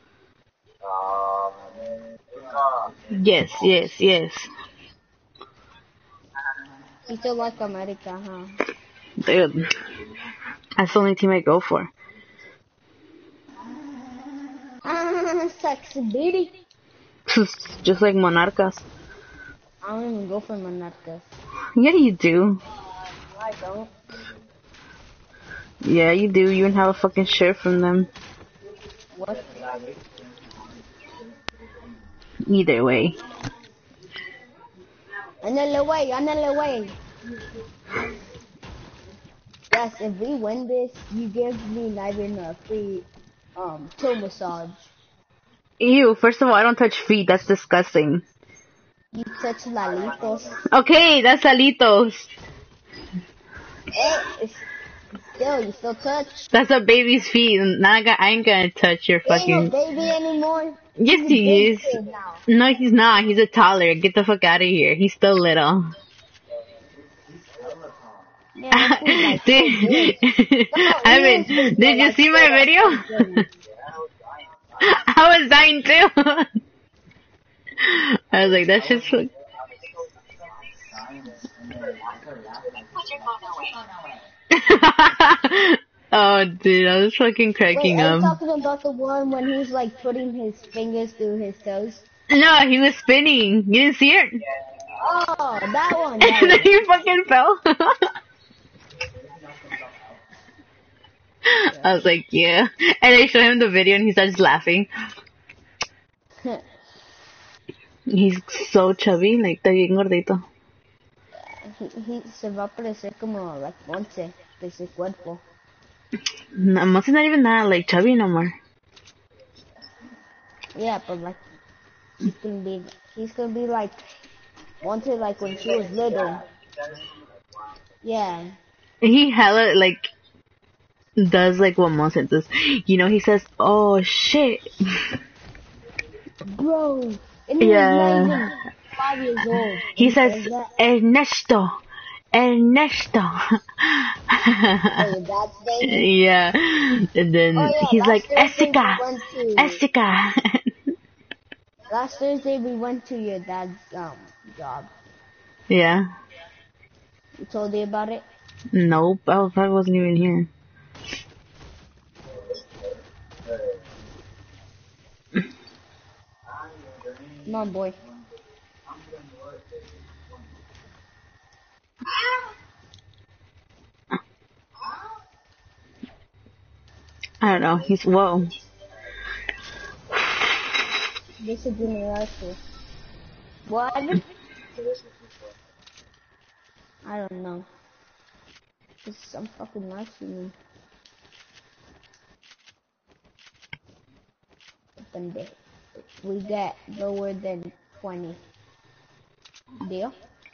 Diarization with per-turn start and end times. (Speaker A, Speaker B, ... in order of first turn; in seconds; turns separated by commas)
Speaker A: 1.3-3.3, Speaker B: 3.1-4.5, Speaker C: 7.1-8.5, Speaker B: 9.2-9.6, Speaker B: 10.8-11.9, Speaker C: 14.8-16.5, Speaker B: 17.3-18.9, Speaker C: 19.8-21.2, Speaker B: 21.8-22.6, Speaker C: 23.3-23.9, Speaker A: 24.1-24.5, Speaker B: 25.8-28.1, Speaker C: 29.1-29.4, Speaker A: 29.2-32.1, Speaker B: 32.5-33.2, Speaker C: 35.4-37.0, Speaker C: 39.7-44.9, Speaker B: 45.8-48.2, Speaker C: 49.1-50.6, Speaker A: 49.8-50.8, Speaker B: 50.7-52.3, Speaker C: 53.9-54.6, Speaker C: 55.3-56.5, Speaker B: 56.5-59.7, Speaker C: 59.2-62.4, Speaker B: 61.0-65.9, Speaker A: 66.9-68.3, Speaker C: 68.5-73.5, Speaker B: 68.7-73.5, Speaker B: 74.8-76.5, Speaker B: 77.8-79.3, Speaker A: 78.6-79.5, Speaker A: 80.2-84.3, Speaker B: 84.5-88.4, Speaker C: 87.7-92.0, Speaker B: 92.3-94.4, Speaker C: 95.0-97.0, Speaker B: 96.2-98.1, Speaker A: 98.9-100.2, Speaker B: 101.4-104.9, Speaker C: 101.7-102.0, Speaker B: 108.1-110.4, Speaker C: 111.4-115.4, Speaker B: 116.5-118.5, Speaker C: 120.8-121.4, Speaker C: 122.2-124.0, Speaker C: 124.8-126.4, Speaker A: 126.0-126.3, Speaker C: 128.0-128.5, Speaker B: 129.0-130.1, Speaker B: 131.2-135.1, Speaker C: 136.4-140.7, Speaker B: 137.6-138.5, Speaker B: 139.9-141.8, Speaker B: 142.3-145.1, Speaker C: 145.0-146.1, Speaker B: 145.8-150.8, Speaker C: 147.6-149.8, Speaker C: 151.9-154.9, Speaker B: 155.7-156.1, Speaker C: 157.4-158.2, Speaker B: 158.7-160.5, Speaker A: 162.3-163.8, Speaker A: 166.4-168.3, Speaker C: 167.4-168.0, Speaker A: 168.8-170.6, Speaker B: 177.4-178.5, Speaker C: 181.4-182.6, Speaker C: 183.7-184.2, Speaker A: 184.8-185.3, Speaker C: 187.0-187.7, Speaker C: 189.0-190.5, Speaker C: 195.0-198.4, Speaker C: 199.8-200.1